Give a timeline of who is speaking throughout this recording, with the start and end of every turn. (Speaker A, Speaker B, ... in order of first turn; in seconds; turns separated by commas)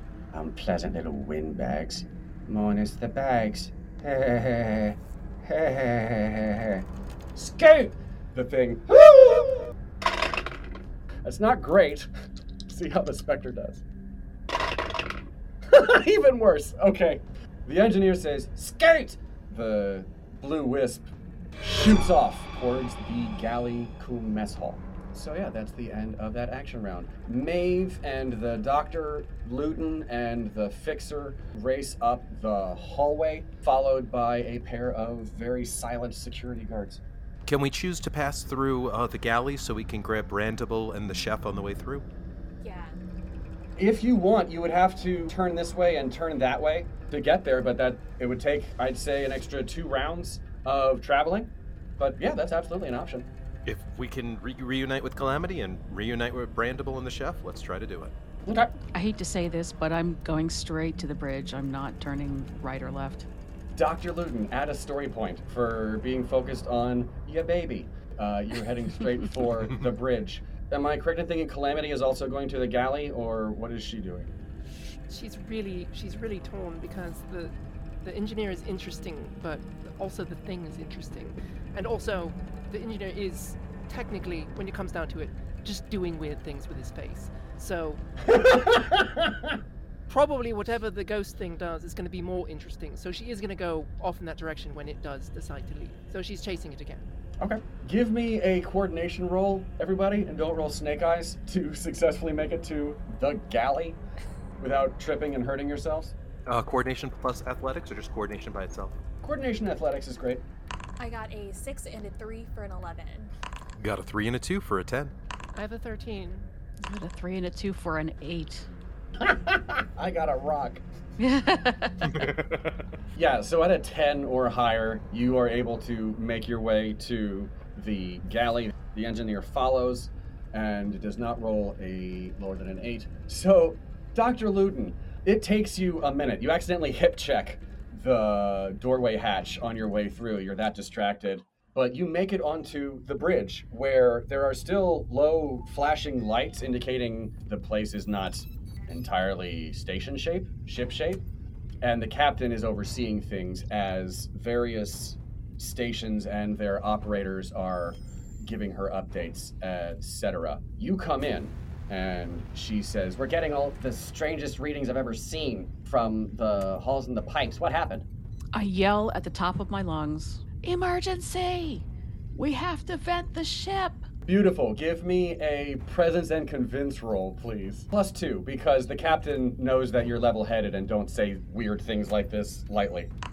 Speaker A: 0.3-6.8, Speaker A: 7.4-9.7, Speaker A: 11.2-12.1, Speaker A: 12.7-13.8, Speaker A: 15.7-37.0, Speaker B: 37.5-42.0, Speaker C: 42.6-43.0, Speaker A: 43.8-53.3, Speaker B: 53.7-58.1, Speaker D: 58.9-63.3, Speaker A: 63.8-74.3, Speaker E: 75.1-88.0, Speaker A: 88.4-89.2, Speaker E: 90.1-97.1, Speaker A: 97.4-104.0, Speaker A: 104.6-106.2, Speaker B: 106.5-109.0, Speaker A: 109.2-110.4, Speaker C: 111.0-113.3, Speaker B: 113.8-115.1, Speaker E: 115.5-116.5, Speaker D: 116.8-118.7, Speaker A: 119.3-120.8, Speaker D: 121.2-122.3, Speaker B: 122.1-122.7, Speaker A: 123.1-151.2, Speaker A: 151.8-168.1, Speaker D: 168.5-174.1, Speaker A: 174.3-183.1